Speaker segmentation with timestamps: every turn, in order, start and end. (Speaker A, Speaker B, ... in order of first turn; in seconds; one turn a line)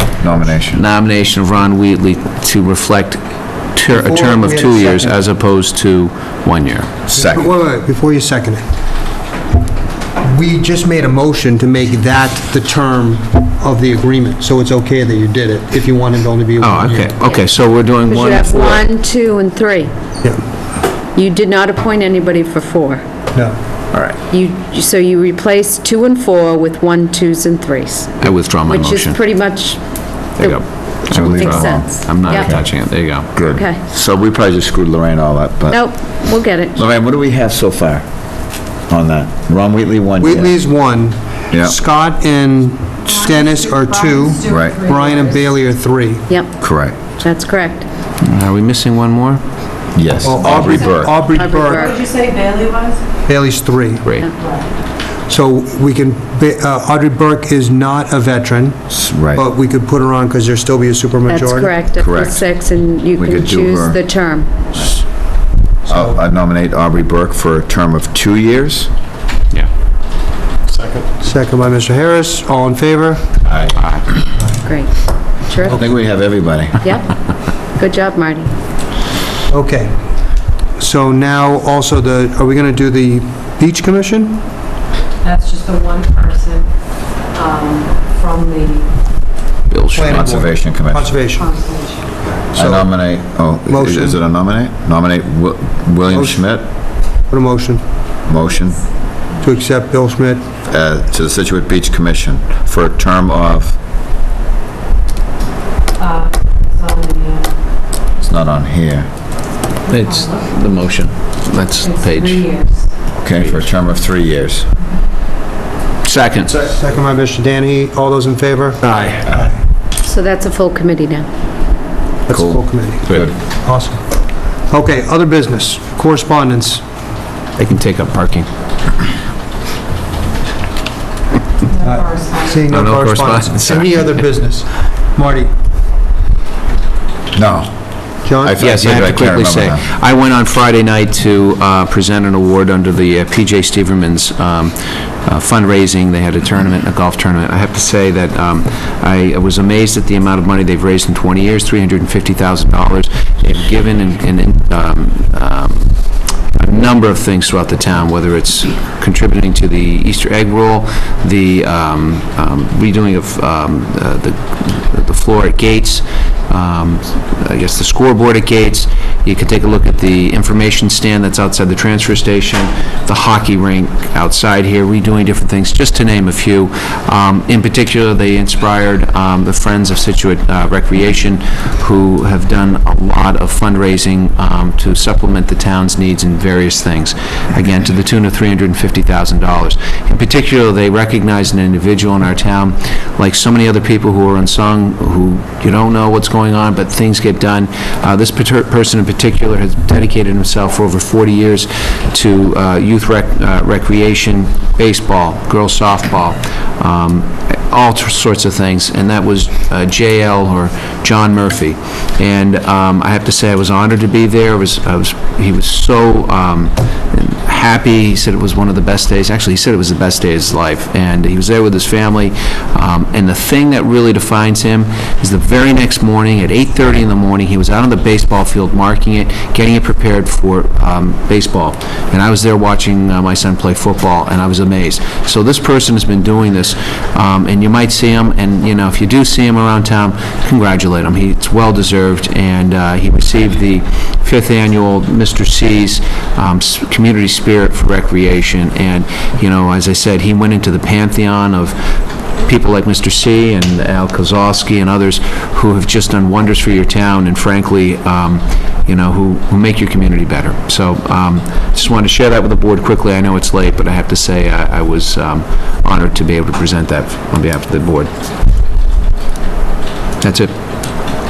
Speaker A: 0.2-0.8
Speaker B: 0.7-3.2
Speaker B: 3.7-6.9
Speaker C: 3.9-5.2
Speaker A: 7.1-7.5
Speaker C: 7.1-8.6
Speaker C: 10.2-17.2
Speaker B: 16.6-18.9
Speaker D: 18.1-19.9
Speaker D: 21.1-23.0
Speaker D: 24.3-32.5
Speaker B: 28.2-29.2
Speaker B: 30.4-33.3
Speaker A: 31.1-32.7
Speaker A: 33.3-35.8
Speaker D: 33.5-33.8
Speaker D: 35.7-36.8
Speaker A: 36.7-38.0
Speaker A: 38.9-40.5
Speaker C: 40.2-46.3
Speaker E: 43.3-45.4
Speaker A: 44.5-44.8
Speaker D: 46.3-46.5
Speaker A: 46.6-47.0
Speaker D: 47.2-47.9
Speaker B: 48.2-49.4
Speaker A: 50.0-51.2
Speaker C: 50.2-52.0
Speaker D: 51.3-52.0
Speaker E: 51.8-53.0
Speaker C: 53.3-54.1
Speaker B: 54.0-54.3
Speaker E: 54.4-54.7
Speaker C: 55.3-61.8
Speaker A: 58.9-59.4
Speaker D: 61.3-64.6
Speaker A: 62.0-62.5
Speaker A: 63.1-64.0
Speaker C: 65.9-66.2
Speaker A: 65.9-68.9
Speaker C: 71.2-73.4
Speaker B: 73.8-74.1
Speaker D: 74.6-74.9
Speaker D: 75.5-75.8
Speaker C: 75.6-76.0
Speaker A: 75.7-76.9
Speaker D: 77.8-78.5
Speaker C: 79.5-79.9
Speaker C: 80.8-84.4
Speaker E: 85.2-86.7
Speaker E: 87.3-88.9
Speaker B: 89.7-90.3
Speaker C: 89.9-91.5
Speaker A: 90.0-91.1
Speaker E: 91.4-92.1
Speaker C: 92.5-92.9
Speaker A: 92.6-96.6
Speaker C: 93.7-94.2
Speaker C: 96.1-96.5
Speaker C: 97.3-97.8
Speaker A: 98.3-98.9
Speaker C: 99.4-100.5
Speaker A: 100.7-103.8
Speaker E: 106.0-107.5
Speaker A: 108.2-109.1
Speaker E: 109.9-110.5
Speaker B: 109.9-112.5
Speaker E: 111.9-112.9
Speaker A: 113.2-114.7
Speaker B: 113.4-113.6
Speaker B: 116.0-116.7
Speaker C: 116.6-119.5
Speaker B: 118.8-119.3
Speaker D: 120.0-121.3
Speaker C: 122.3-124.0
Speaker A: 122.3-123.3
Speaker B: 123.0-123.3
Speaker C: 124.7-126.8
Speaker B: 127.6-128.5
Speaker E: 131.7-132.6
Speaker C: 131.8-135.5
Speaker B: 132.7-134.2
Speaker A: 137.3-137.7
Speaker C: 138.2-139.1
Speaker A: 138.4-139.8
Speaker B: 138.4-156.0
Speaker B: 156.5-251.8
Speaker B: 252.4-268.1
Speaker B: 270.2-270.5